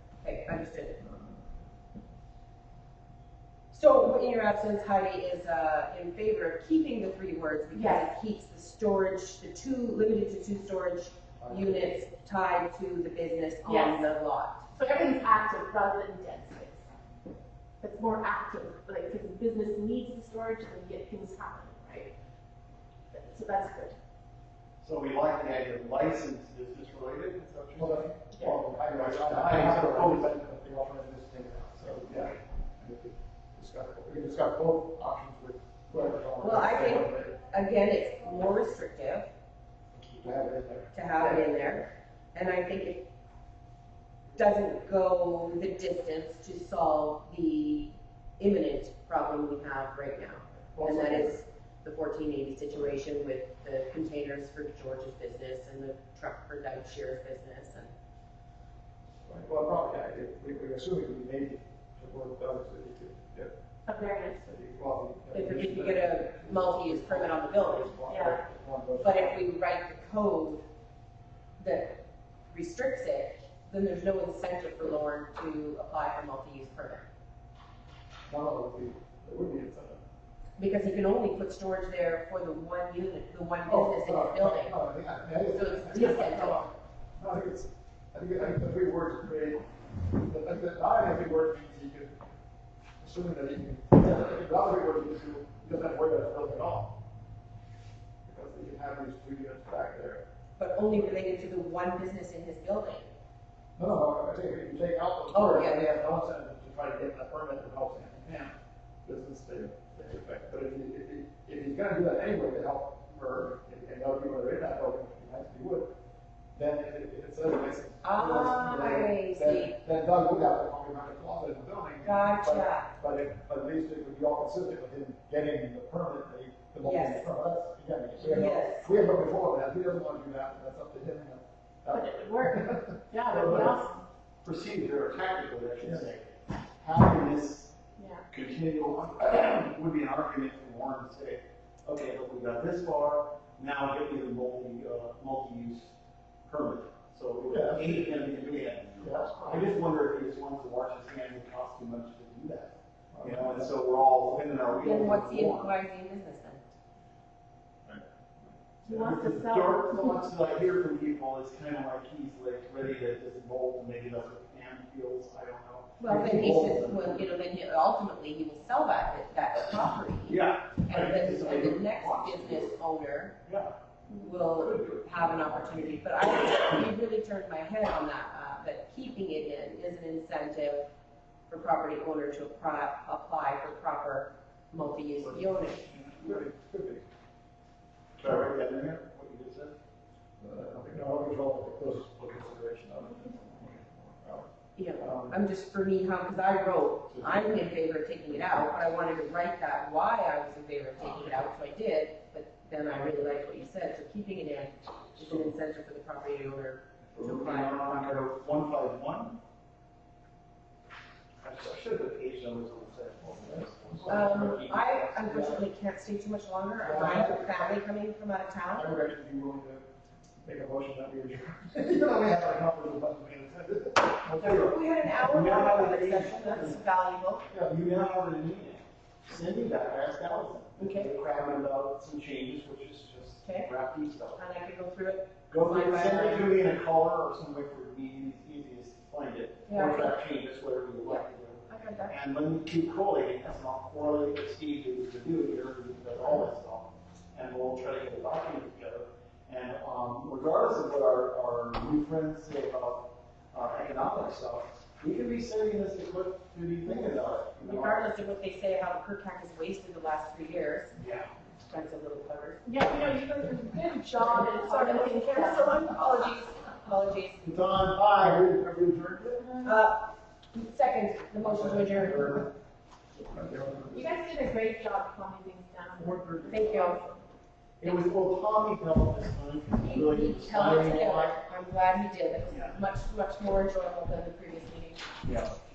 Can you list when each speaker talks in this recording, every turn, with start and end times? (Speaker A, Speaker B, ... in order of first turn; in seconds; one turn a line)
Speaker A: 0.2-1.0
Speaker A: 3.7-14.7
Speaker B: 7.7-8.1
Speaker C: 11.4-11.9
Speaker B: 13.6-14.1
Speaker B: 14.7-16.9
Speaker B: 17.8-22.1
Speaker B: 23.1-24.0
Speaker D: 24.8-28.2
Speaker C: 27.8-37.3
Speaker B: 28.3-28.6
Speaker D: 28.8-30.3
Speaker A: 36.4-39.3
Speaker C: 39.9-41.5
Speaker A: 40.9-43.1
Speaker A: 44.4-57.9
Speaker C: 50.7-51.4
Speaker C: 59.2-63.5
Speaker B: 63.9-64.5
Speaker C: 64.5-69.4
Speaker A: 65.3-68.2
Speaker B: 68.1-68.4
Speaker A: 69.0-70.6
Speaker A: 71.6-72.0
Speaker A: 72.5-77.1
Speaker C: 78.3-80.0
Speaker A: 80.6-84.8
Speaker C: 83.7-89.6
Speaker A: 85.5-86.6
Speaker C: 90.2-92.2
Speaker C: 93.0-96.9
Speaker C: 98.3-100.2
Speaker A: 100.6-103.1
Speaker C: 103.8-115.9
Speaker A: 105.3-105.8
Speaker C: 116.6-133.8
Speaker A: 118.0-119.7
Speaker A: 122.0-122.9
Speaker A: 126.8-127.3
Speaker A: 128.2-128.9
Speaker B: 131.9-134.0
Speaker D: 134.4-137.7
Speaker C: 135.8-136.1
Speaker B: 138.0-138.2
Speaker D: 138.3-145.9
Speaker D: 146.5-155.7
Speaker C: 147.5-148.1
Speaker C: 149.0-149.7
Speaker C: 153.1-153.7
Speaker A: 154.7-156.6
Speaker C: 157.9-159.0
Speaker B: 158.8-160.3
Speaker D: 158.9-167.3
Speaker A: 166.0-173.3
Speaker D: 170.3-172.8
Speaker D: 173.5-173.7
Speaker A: 174.1-180.9
Speaker D: 174.4-176.0
Speaker A: 181.5-185.9
Speaker C: 185.2-187.0
Speaker D: 188.2-189.7
Speaker C: 190.4-194.5
Speaker A: 194.8-208.2
Speaker C: 195.0-195.3
Speaker D: 197.1-197.6
Speaker D: 198.3-198.7
Speaker D: 207.2-209.4
Speaker D: 211.4-215.7
Speaker C: 213.4-214.3
Speaker A: 214.1-218.9
Speaker C: 216.8-217.8
Speaker C: 218.7-219.8
Speaker C: 220.4-224.4
Speaker D: 224.2-226.8
Speaker A: 224.7-227.5
Speaker D: 227.5-234.4
Speaker A: 230.8-231.1
Speaker A: 233.4-233.7
Speaker A: 234.4-236.6
Speaker D: 235.5-258.1
Speaker A: 239.7-240.2
Speaker A: 241.0-242.2
Speaker A: 257.6-260.9
Speaker D: 261.0-261.3
Speaker A: 261.6-262.8
Speaker B: 262.6-265.8
Speaker A: 264.1-267.6
Speaker D: 267.4-268.5
Speaker C: 268.2-269.5
Speaker A: 269.6-272.5
Speaker D: 271.4-272.4
Speaker C: 273.3-274.1
Speaker B: 273.9-276.4
Speaker D: 276.0-276.9
Speaker A: 276.5-277.1
Speaker D: 277.8-281.4
Speaker A: 277.8-278.1
Speaker A: 279.8-285.1
Speaker D: 282.5-282.8
Speaker D: 285.2-285.6